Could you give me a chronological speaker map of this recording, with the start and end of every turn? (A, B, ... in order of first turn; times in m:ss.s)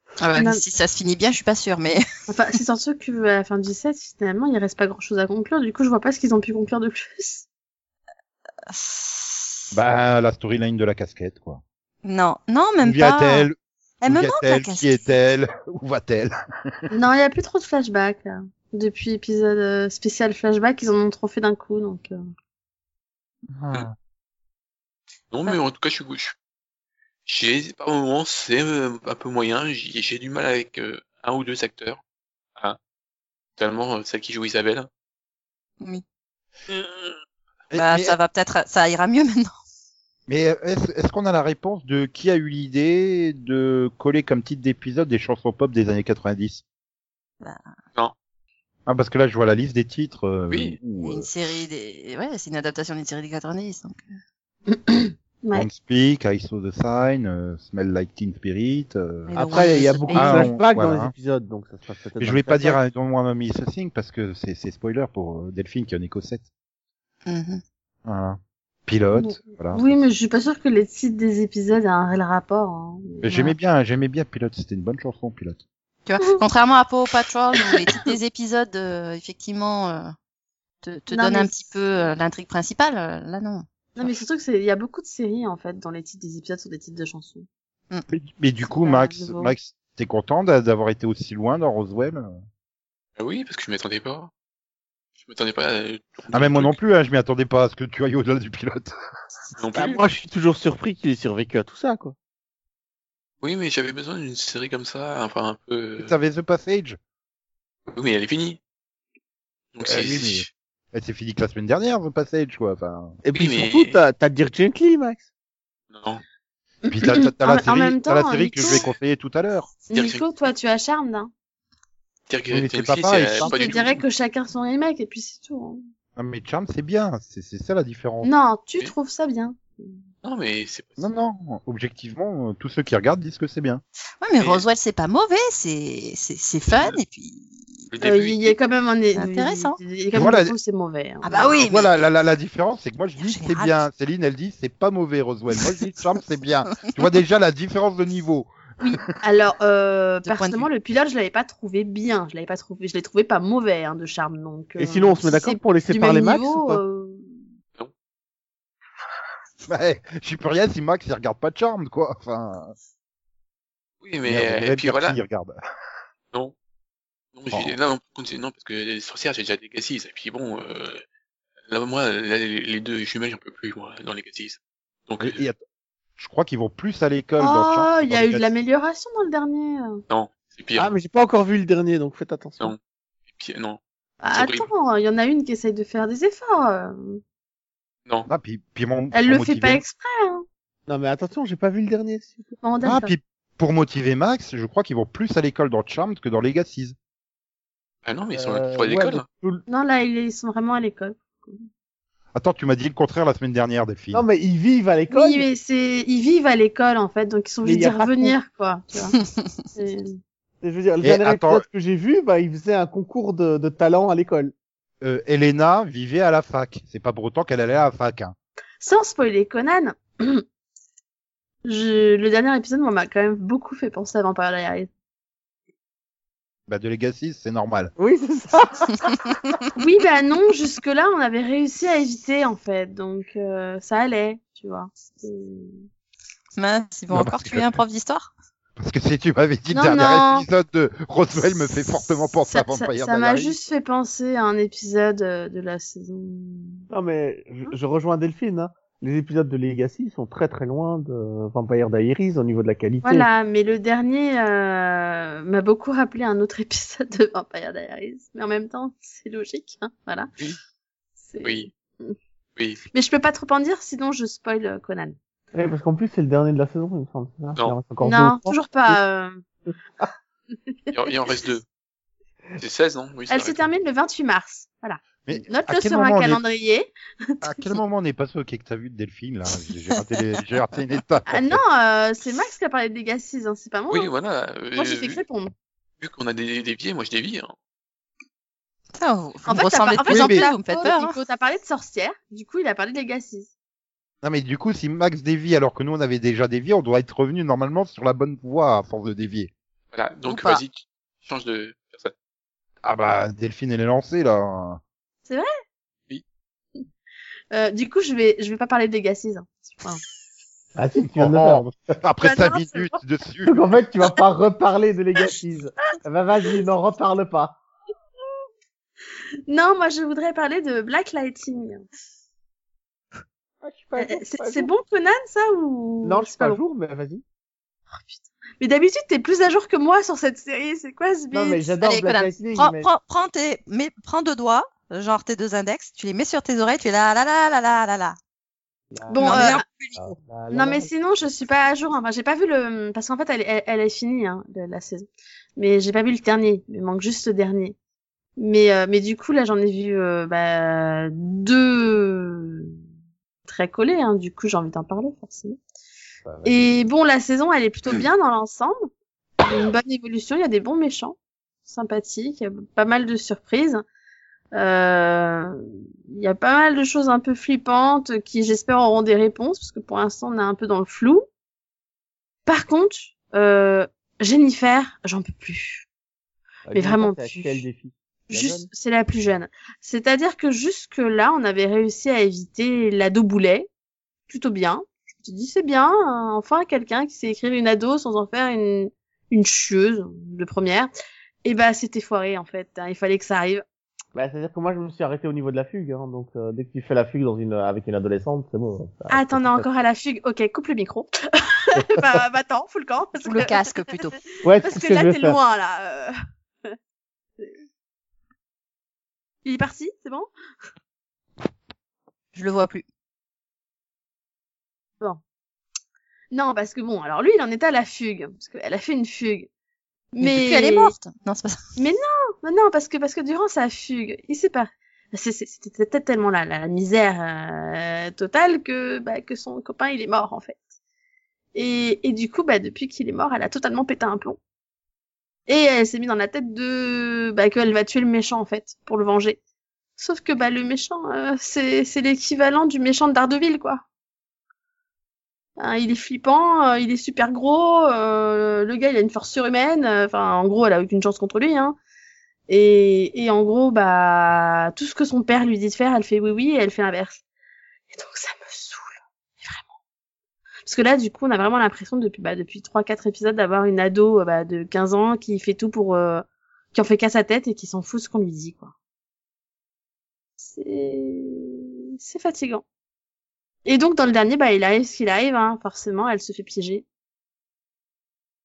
0:00.2-0:02.0 A
0:00.3-0:00.6 B
0:02.3-0:07.4 B
0:08.7-0:09.1 A
0:09.7-0:11.6 C
0:12.0-0:13.5 A
0:12.8-0:16.3 C
0:14.0-0:15.1 A
0:16.9-0:22.2 B
0:23.5-0:24.0 C
0:25.3-0:26.3 D
0:27.3-0:32.0 D
0:33.6-0:34.9 D
0:36.7-0:37.2 D
0:37.7-0:38.2 C
0:37.7-0:39.5 A
0:40.3-0:46.6 C
0:48.9-0:51.3 C
0:50.5-0:50.8 D
0:51.0-0:54.0 A
0:54.7-0:55.7 B
0:55.5-0:59.3 C
0:59.3-1:00.6 A
0:59.4-1:02.8 E
1:00.1-1:01.1 C
1:02.2-1:06.5 C
1:07.3-1:07.6 A
1:08.0-1:10.0 C
1:09.1-1:13.5 B
1:13.2-1:15.6 C
1:16.1-1:20.1 A
1:20.8-1:23.6 A
1:21.1-1:21.5 B
1:24.0-1:27.5 B
1:28.1-1:32.4 C
1:28.8-1:29.5 B
1:33.2-1:34.3 D
1:35.2-1:36.8 D
1:36.3-1:38.9 C
1:39.6-1:40.0 D
1:39.8-1:42.2 E
1:43.4-1:46.1 D
1:46.0-1:47.0 C
1:47.9-1:48.6 D
1:49.7-1:50.5 D
1:49.8-1:53.2 C
1:53.2-1:55.3 E
1:53.4-1:54.0 D
1:55.9-1:56.2 D
1:56.8-1:58.8 B
1:56.9-1:59.7 C
1:59.9-2:01.3 B
1:59.9-2:00.2 D
2:02.3-2:04.0 D
2:02.5-2:03.5 C
2:03.4-2:05.8 B
2:06.2-2:08.3 C
2:08.2-2:10.0 B
2:10.2-2:11.0 D
2:11.0-2:13.8 C
2:14.2-2:17.8 A
2:14.4-2:14.6 D
2:17.9-2:18.6 D
2:18.0-2:21.6 B
2:19.2-2:19.8 A
2:20.1-2:20.6 C
2:21.2-2:21.9 A
2:21.6-2:28.5 C
2:23.2-2:23.8 A
2:28.8-2:37.4 B
2:30.2-2:30.7 A
2:34.8-2:36.8 E
2:39.7-2:42.8 C
2:44.0-2:45.2 D
2:44.2-2:45.6 C
2:47.4-2:51.0 D
2:51.7-2:55.4 D
2:55.2-2:55.6 C
2:56.2-2:58.5 C
2:57.4-3:00.0 B
3:00.1-3:00.9 D
3:00.8-3:02.8 E
3:03.3-3:03.8 D
3:04.2-3:07.2 B
3:04.3-3:04.7 D
3:08.3-3:09.8 C
3:09.1-3:10.4 B
3:10.9-3:12.6 E
3:12.6-3:13.1 B
3:12.8-3:17.0 C
3:18.0-3:19.3 D
3:18.3-3:19.6 E
3:19.7-3:21.7 B
3:22.4-3:24.2 C
3:24.1-3:25.5 E
3:25.1-3:29.2 B
3:27.6-3:28.4 E
3:29.8-3:30.2 B
3:30.6-3:34.5 E
3:31.0-3:31.6 C
3:35.0-3:38.4 C
3:38.8-3:40.4 B
3:41.6-3:44.9 B
3:46.7-3:47.9 C
3:48.0-3:49.4 E
3:49.8-3:55.8 B
3:56.6-3:58.3 A
3:57.1-3:57.8 C
3:58.8-4:03.6 C
3:59.7-4:00.4 B
4:02.5-4:06.9 B
4:06.9-4:13.3 E
4:13.0-4:20.3 B
4:21.2-4:22.2 B
4:21.4-4:21.7 D
4:22.9-4:25.2 B
4:25.5-4:29.0 E
4:28.0-4:29.4 B
4:30.5-4:31.0 B
4:30.9-4:31.6 D
4:32.6-4:33.7 D
4:33.3-4:37.4 B
4:35.2-4:36.4 C
4:37.4-4:41.6 C
4:41.3-4:44.1 B
4:43.9-4:45.2 D
4:44.8-4:45.5 B
4:46.0-4:47.5 D
4:49.0-4:51.2 A
4:49.5-4:53.5 B
4:50.1-4:50.5 C
4:54.2-4:59.5 C
4:59.9-5:02.1 D
5:00.3-5:00.6 A
5:02.8-5:04.8 C
5:07.5-5:10.0 B
5:10.8-5:11.7 E
5:11.2-5:13.6 C
5:12.2-5:12.9 B
5:13.5-5:17.6 E
5:19.5-5:21.8 B
5:23.6-5:24.7 E
5:24.0-5:26.6 B
5:26.0-5:27.2 E
5:27.9-5:31.8 B
5:31.3-5:32.9 E
5:31.8-5:38.2 A
5:38.9-5:41.4 E
5:39.1-5:39.6 B
5:39.2-5:40.2 A
5:40.5-5:47.8 B
5:48.4-5:52.8 B
5:53.5-5:55.6 B
5:56.2-5:56.8 E
5:56.4-5:58.8 B
5:59.4-6:03.8 B
6:04.5-6:05.6 B
6:06.1-6:11.2 B
6:12.5-6:15.8 B
6:16.7-6:18.7 E
6:16.7-6:17.6 B
6:18.3-6:23.7 B
6:24.3-6:30.9 B
6:31.4-6:33.6 B
6:34.2-6:39.7 E
6:39.1-6:43.6 B
6:43.2-6:44.2 A
6:44.4-6:45.4 E
6:44.6-6:46.1 B
6:49.4-6:50.3 B
6:52.3-6:52.8 A
6:56.3-6:59.5 B
7:00.1-7:00.9 B
7:00.2-7:01.6 A
7:01.8-7:10.6 B
7:11.6-7:14.4 B
7:15.5-7:19.4 B
7:20.0-7:23.8 B
7:25.6-7:31.8 B
7:32.5-7:37.2 B
7:37.9-7:39.7 B
7:40.6-7:48.7 B
7:50.4-7:52.6 B
7:53.7-7:56.8 B